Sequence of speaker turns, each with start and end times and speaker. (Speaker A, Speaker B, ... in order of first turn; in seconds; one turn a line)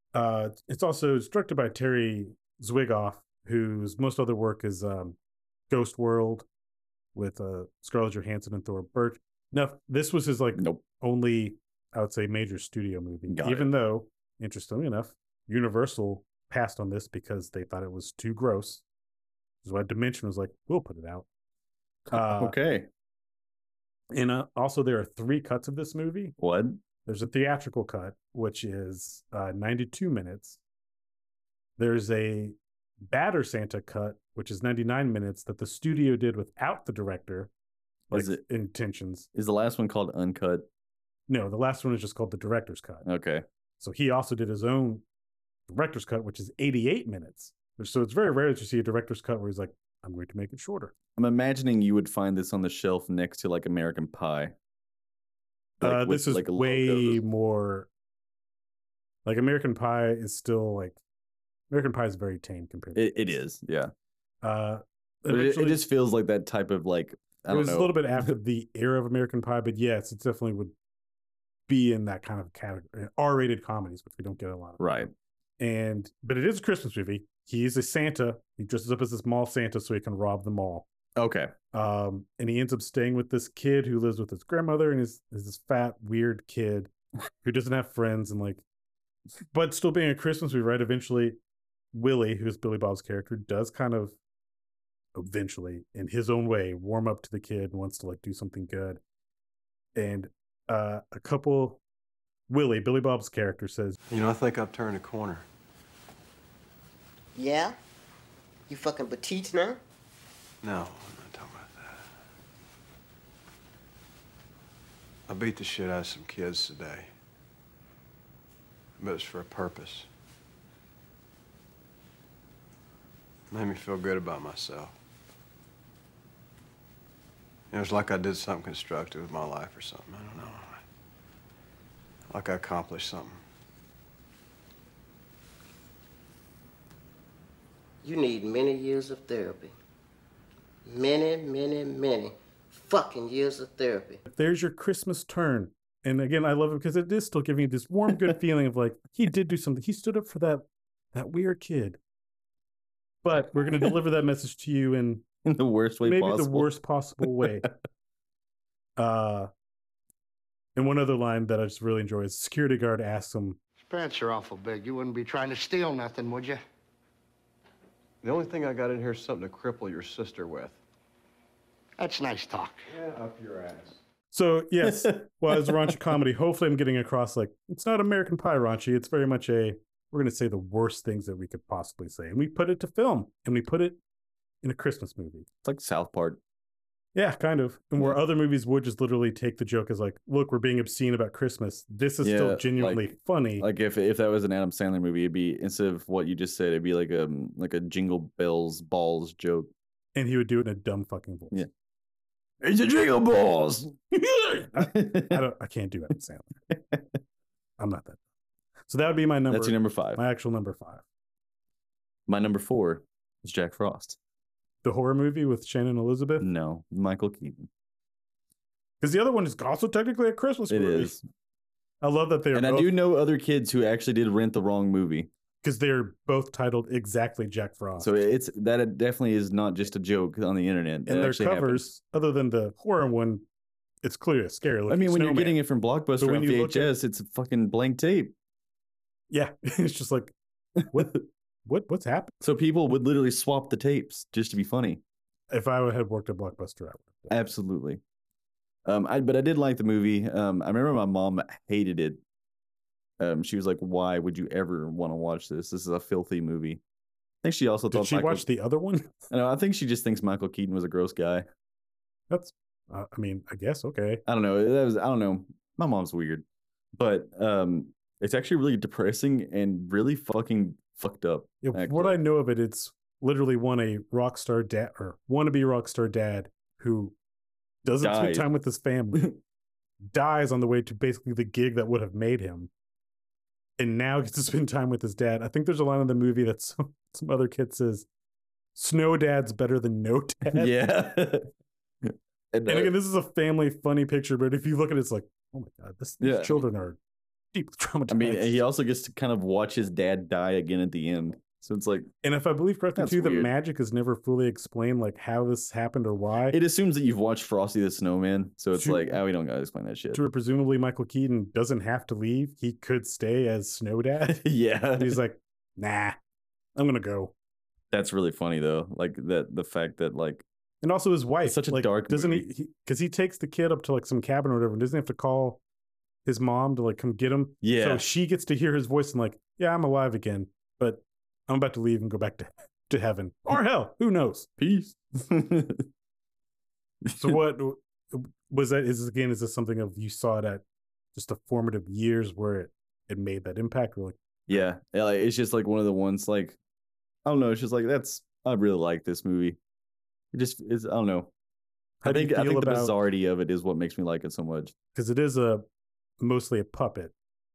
Speaker A: 0.1-5.2
Speaker A: 5.7-6.5
Speaker A: 7.1-18.8
Speaker B: 10.6-10.8
Speaker B: 13.3-13.7
Speaker A: 19.6-21.3
Speaker A: 22.1-22.5
Speaker B: 22.1-22.9
Speaker A: 24.1-26.3
Speaker B: 26.4-26.8
Speaker A: 27.1-30.6
Speaker A: 31.8-37.5
Speaker B: 38.1-38.4
Speaker A: 38.1-39.3
Speaker B: 39.3-40.7
Speaker A: 41.3-43.0
Speaker B: 43.0-43.4
Speaker A: 43.8-45.0
Speaker A: 45.7-50.9
Speaker B: 51.2-54.5
Speaker A: 55.8-57.9
Speaker B: 55.8-57.2
Speaker A: 59.2-61.0
Speaker A: 61.7-63.4
Speaker B: 63.0-63.9
Speaker A: 64.4-65.8
Speaker B: 65.3-68.3
Speaker A: 67.5-70.7
Speaker A: 71.7-75.0
Speaker B: 74.8-75.1
Speaker A: 75.6-80.9
Speaker B: 81.2-81.5
Speaker A: 81.7-86.9
Speaker A: 87.4-88.6
Speaker A: 89.5-91.4
Speaker A: 91.9-94.1
Speaker A: 95.1-99.0
Speaker A: 100.0-101.8
Speaker A: 102.5-104.0
Speaker C: 104.1-105.5
Speaker D: 107.3-107.8
Speaker D: 108.7-109.8
Speaker C: 110.6-112.1
Speaker C: 115.3-117.1
Speaker C: 119.0-120.1
Speaker C: 123.5-124.9
Speaker C: 127.7-130.8
Speaker C: 132.3-133.4
Speaker D: 138.0-139.7
Speaker D: 140.9-144.2
Speaker A: 144.3-152.0
Speaker A: 153.2-155.2
Speaker B: 155.4-156.7
Speaker A: 156.0-157.7
Speaker B: 157.4-157.7
Speaker A: 159.0-159.5
Speaker A: 160.8-163.6
Speaker E: 163.8-166.6
Speaker C: 168.2-170.8
Speaker E: 172.0-172.8
Speaker C: 172.9-173.9
Speaker A: 174.3-184.0
Speaker A: 184.6-185.4
Speaker B: 185.6-186.4
Speaker A: 187.1-193.7
Speaker B: 192.2-199.7
Speaker A: 200.1-201.6
Speaker B: 202.6-204.0
Speaker A: 204.2-206.5
Speaker B: 204.8-205.4
Speaker A: 207.8-208.2
Speaker A: 208.9-211.0
Speaker B: 209.5-210.2
Speaker B: 212.3-214.2
Speaker A: 214.8-216.4
Speaker B: 216.4-217.7
Speaker A: 219.0-221.2
Speaker B: 220.7-221.2
Speaker A: 222.0-222.9
Speaker B: 222.5-225.3
Speaker A: 225.6-228.1
Speaker B: 228.0-231.9
Speaker A: 231.1-233.4
Speaker A: 234.0-235.6
Speaker B: 234.9-238.3
Speaker A: 236.2-236.9
Speaker A: 239.3-240.3
Speaker A: 240.9-242.3
Speaker B: 242.4-245.0
Speaker A: 245.5-247.3
Speaker B: 247.3-248.0
Speaker B: 248.8-252.2
Speaker B: 253.2-256.8
Speaker B: 257.4-258.4
Speaker A: 257.9-259.1
Speaker B: 259.3-261.4
Speaker A: 262.3-264.2
Speaker B: 264.3-266.4
Speaker B: 266.9-272.2
Speaker A: 271.6-277.1
Speaker A: 277.8-279.3
Speaker B: 278.0-278.5
Speaker A: 280.0-282.7
Speaker A: 283.8-288.1
Speaker A: 288.8-290.8
Speaker B: 290.5-291.5
Speaker B: 292.1-292.9
Speaker A: 292.7-297.0
Speaker B: 296.2-296.6
Speaker A: 297.5-298.6
Speaker B: 298.1-302.1
Speaker A: 302.2-306.6
Speaker B: 302.9-303.5
Speaker B: 306.5-310.2
Speaker A: 308.7-309.2
Speaker A: 310.1-314.4
Speaker B: 314.3-315.2
Speaker A: 314.9-316.2
Speaker A: 316.7-317.3
Speaker B: 317.9-320.4
Speaker A: 320.8-325.6
Speaker B: 321.4-322.5
Speaker A: 326.2-334.5
Speaker B: 327.6-328.1
Speaker B: 334.6-335.9
Speaker B: 337.1-337.3
Speaker A: 337.2-344.6
Speaker B: 344.5-346.6
Speaker B: 347.2-349.6
Speaker B: 350.3-351.3
Speaker A: 352.0-352.9
Speaker B: 352.1-354.7
Speaker A: 354.9-355.7
Speaker A: 356.2-357.1